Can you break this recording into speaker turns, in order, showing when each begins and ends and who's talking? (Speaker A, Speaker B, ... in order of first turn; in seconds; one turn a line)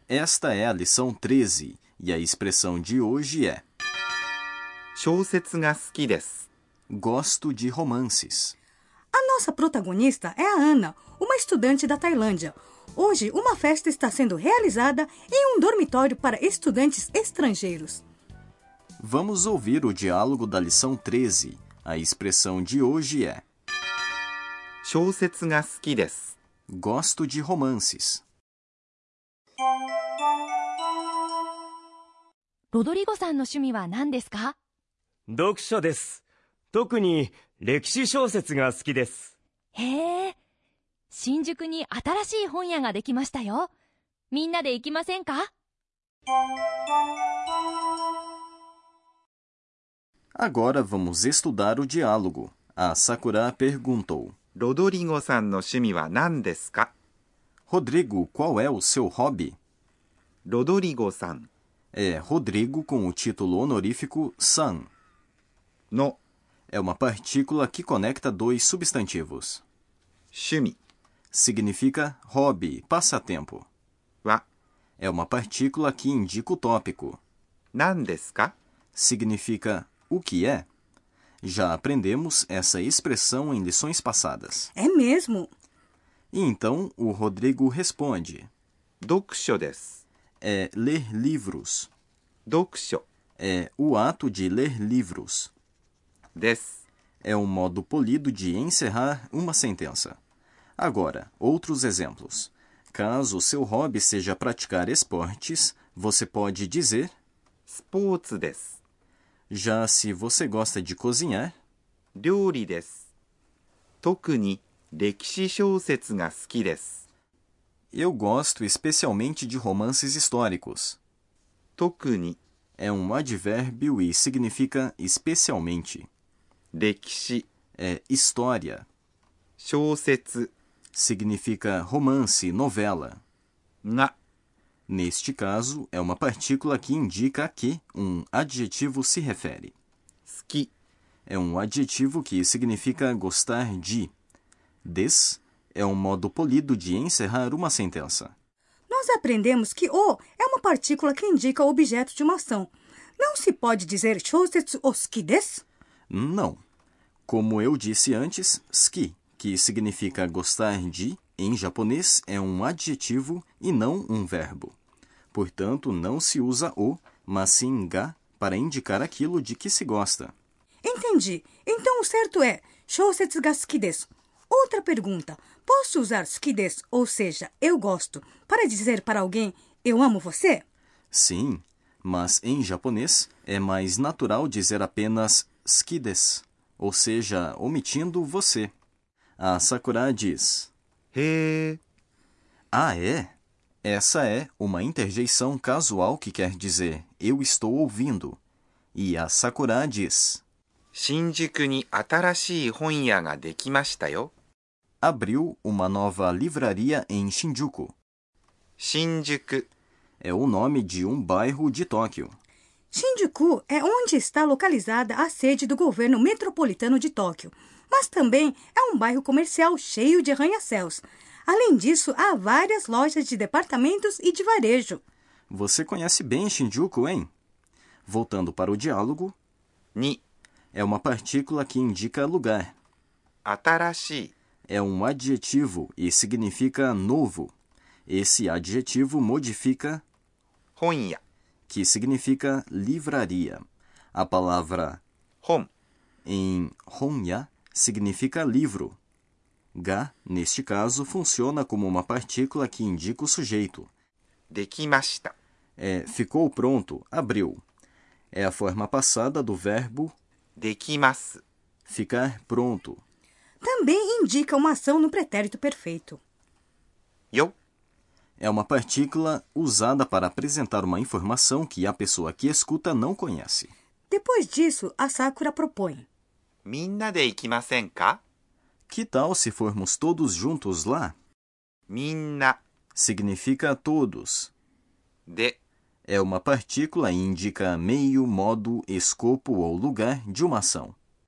Speaker A: 0.1-3.6
Speaker B: 5.0-6.5
Speaker A: 6.9-8.6
Speaker C: 9.1-18.0
Speaker A: 19.0-23.4
Speaker B: 24.8-26.4
Speaker A: 26.7-28.2
Speaker D: 32.7-34.5
Speaker E: 35.3-39.4
Speaker D: 39.8-40.4
Speaker D: 41.1-43.7
Speaker D: 44.3-45.5
Speaker A: 50.4-54.4
Speaker B: 54.6-56.9
Speaker A: 57.7-59.6
Speaker B: 60.5-61.5
Speaker A: 61.9-64.9
Speaker B: 65.9-66.2
Speaker A: 66.7-69.6
Speaker B: 70.3-70.8
Speaker A: 71.3-73.7
Speaker A: 75.0-77.2
Speaker B: 77.7-78.6
Speaker A: 79.0-80.7
Speaker A: 81.4-84.7
Speaker C: 84.8-85.5
Speaker A: 86.3-88.5
Speaker B: 89.0-90.0
Speaker A: 90.4-91.9
Speaker B: 92.5-93.0
Speaker A: 93.4-95.5
Speaker B: 96.3-96.8
Speaker A: 97.2-100.2
Speaker A: 100.8-107.1
Speaker B: 107.7-108.8
Speaker A: 109.5-111.5
Speaker B: 112.2-113.1
Speaker B: 114.0-117.0
Speaker A: 117.9-121.0
Speaker B: 121.8-122.4
Speaker A: 122.8-126.1
Speaker B: 126.7-127.5
Speaker A: 127.8-128.9
Speaker B: 129.6-130.5
Speaker A: 130.9-133.2
Speaker B: 133.8-134.2
Speaker A: 134.9-139.7
Speaker B: 140.3-140.7
Speaker A: 141.3-144.1
Speaker A: 144.8-148.3
Speaker C: 148.9-155.6
Speaker A: 156.1-156.6
Speaker A: 157.3-164.8
Speaker A: 165.3-170.3
Speaker C: 170.8-180.7
Speaker A: 181.1-188.7
Speaker A: 189.4-190.7
Speaker B: 191.1-191.8
Speaker A: 192.7-198.4
Speaker A: 198.9-200.4
Speaker B: 200.9-204.3
Speaker A: 205.0-207.9
Speaker B: 208.8-209.7
Speaker A: 210.2-212.3
Speaker C: 212.9-225.0
Speaker A: 225.5-227.3
Speaker A: 228.1-229.3
Speaker B: 229.9-230.2
Speaker A: 230.7-232.7
Speaker B: 233.4-234.3
Speaker A: 234.7-237.5
Speaker A: 238.1-240.0
Speaker B: 240.8-241.2
Speaker A: 241.7-245.0
Speaker B: 245.4-245.7
Speaker A: 246.2-249.0
Speaker A: 249.8-253.9
Speaker B: 254.5-255.3
Speaker A: 255.8-257.6
Speaker A: 258.3-260.1
Speaker B: 260.6-261.4
Speaker A: 261.9-263.0
Speaker C: 263.6-266.2
Speaker A: 268.4-273.7
Speaker C: 274.1-276.1
Speaker B: 276.6-278.2
Speaker A: 278.9-281.2
Speaker B: 281.9-282.6
Speaker A: 282.9-284.5
Speaker B: 285.3-285.6
Speaker A: 286.1-291.0